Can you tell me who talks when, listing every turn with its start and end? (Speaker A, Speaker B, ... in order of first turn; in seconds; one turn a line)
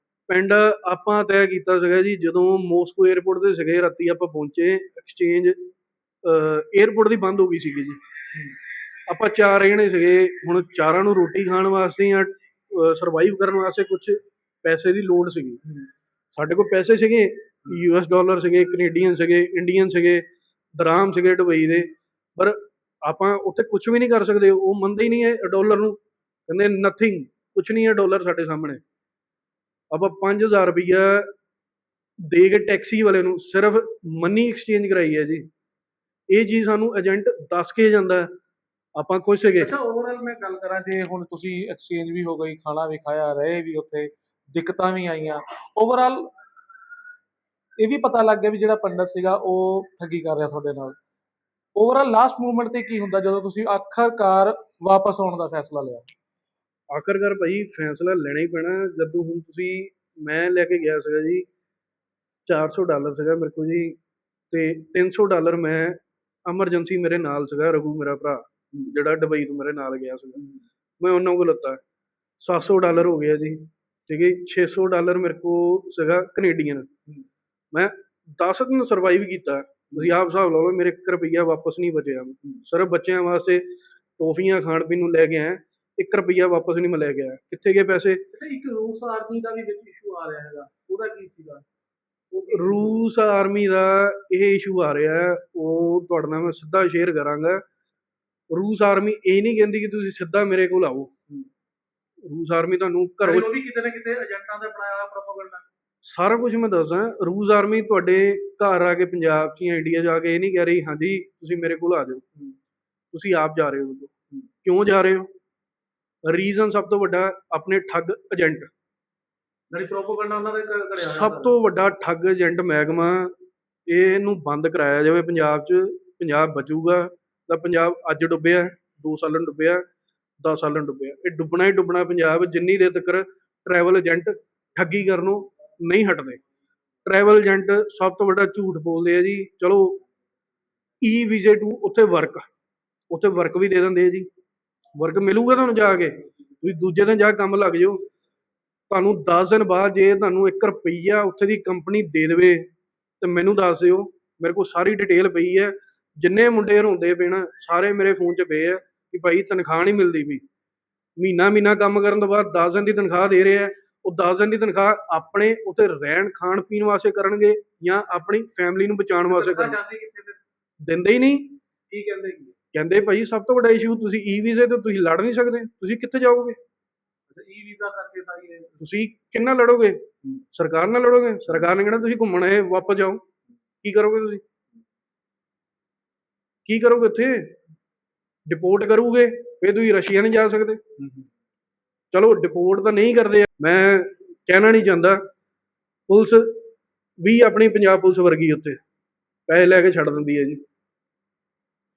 Speaker A: 0.3-5.7
Speaker A: 6.2-8.0
Speaker A: 9.1-15.6
Speaker A: 16.4-20.2
Speaker A: 20.8-28.8
Speaker A: 29.9-31.3
Speaker A: 32.3-35.5
Speaker A: 36.3-38.3
Speaker A: 39.0-39.7
Speaker B: 39.6-46.3
Speaker B: 47.8-51.0
Speaker B: 51.8-56.1
Speaker A: 56.9-61.5
Speaker A: 62.5-64.0
Speaker A: 64.5-70.4
Speaker A: 71.0-71.8
Speaker A: 72.4-76.9
Speaker A: 77.7-88.2
Speaker B: 88.3-91.6
Speaker B: 92.3-92.9
Speaker A: 92.5-97.6
Speaker A: 98.5-101.1
Speaker A: 102.2-103.5
Speaker B: 103.2-105.6
Speaker A: 106.0-112.2
Speaker A: 113.1-114.1
Speaker A: 114.6-115.3
Speaker A: 116.2-118.7
Speaker B: 119.7-121.5
Speaker A: 121.0-123.3
Speaker A: 123.9-129.8
Speaker A: 130.4-136.4
Speaker A: 137.0-140.0
Speaker A: 141.0-142.5
Speaker A: 143.1-144.3
Speaker A: 144.9-148.0
Speaker A: 148.9-152.7
Speaker A: 153.2-160.4
Speaker A: 161.2-169.8
Speaker B: 169.3-170.4
Speaker A: 170.8-171.6
Speaker B: 171.9-172.5
Speaker A: 172.7-176.6
Speaker B: 177.3-178.8
Speaker A: 178.8-183.2
Speaker A: 183.8-184.4
Speaker A: 186.7-187.5
Speaker A: 188.4-190.8
Speaker A: 192.1-195.2
Speaker A: 196.1-196.6
Speaker A: 197.2-198.8
Speaker A: 199.5-200.6